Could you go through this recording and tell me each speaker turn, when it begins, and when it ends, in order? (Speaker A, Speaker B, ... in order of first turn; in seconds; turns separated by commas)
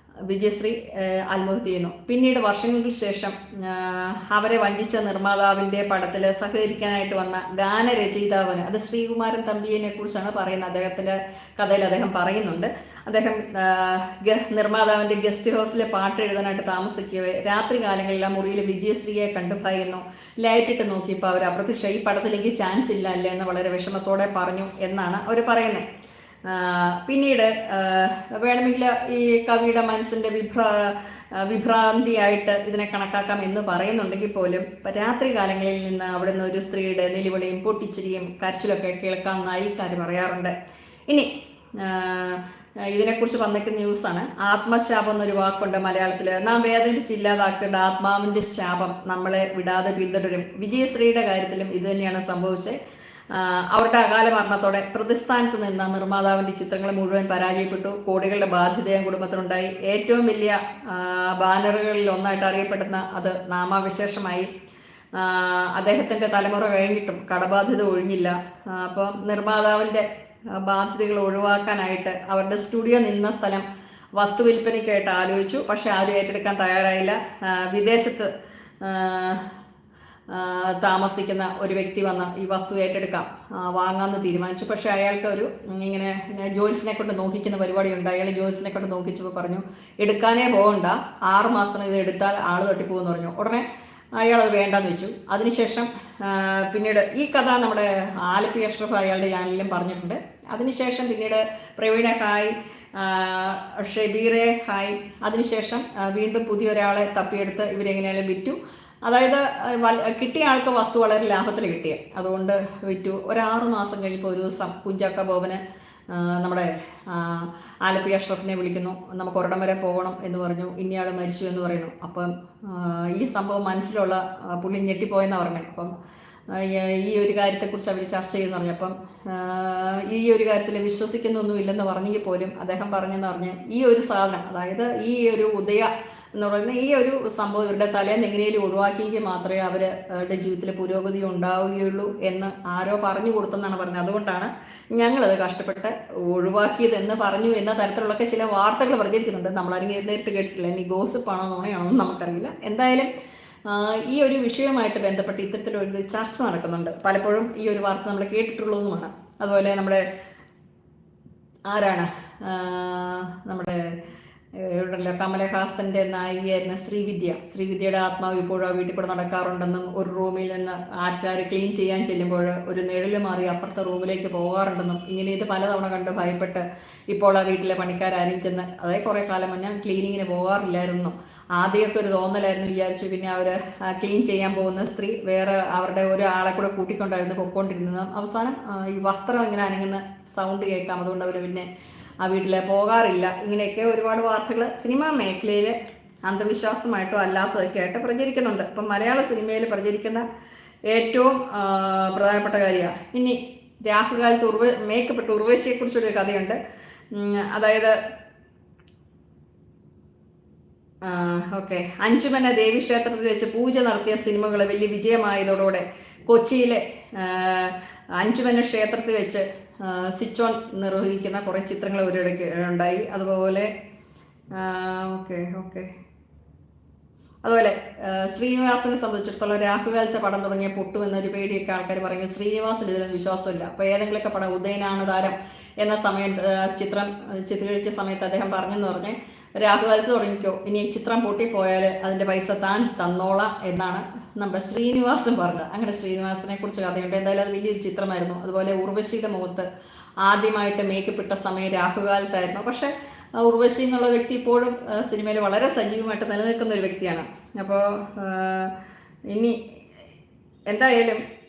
Speaker A: 0.3-25.9, Speaker A: 26.5-40.5, Speaker A: 41.1-52.8, Speaker A: 53.3-64.5, Speaker A: 65.2-73.7, Speaker A: 74.2-78.3, Speaker A: 78.8-79.5, Speaker A: 80.3-125.9, Speaker A: 126.5-153.1, Speaker A: 153.7-160.0, Speaker A: 161.7-163.9, Speaker A: 164.6-191.7, Speaker A: 192.2-200.2, Speaker A: 200.9-206.6, Speaker A: 207.1-207.9, Speaker A: 211.0-223.7, Speaker A: 224.5-225.9, Speaker A: 227.4-249.7, Speaker A: 250.2-258.8, Speaker A: 259.3-259.8, Speaker A: 260.7-261.2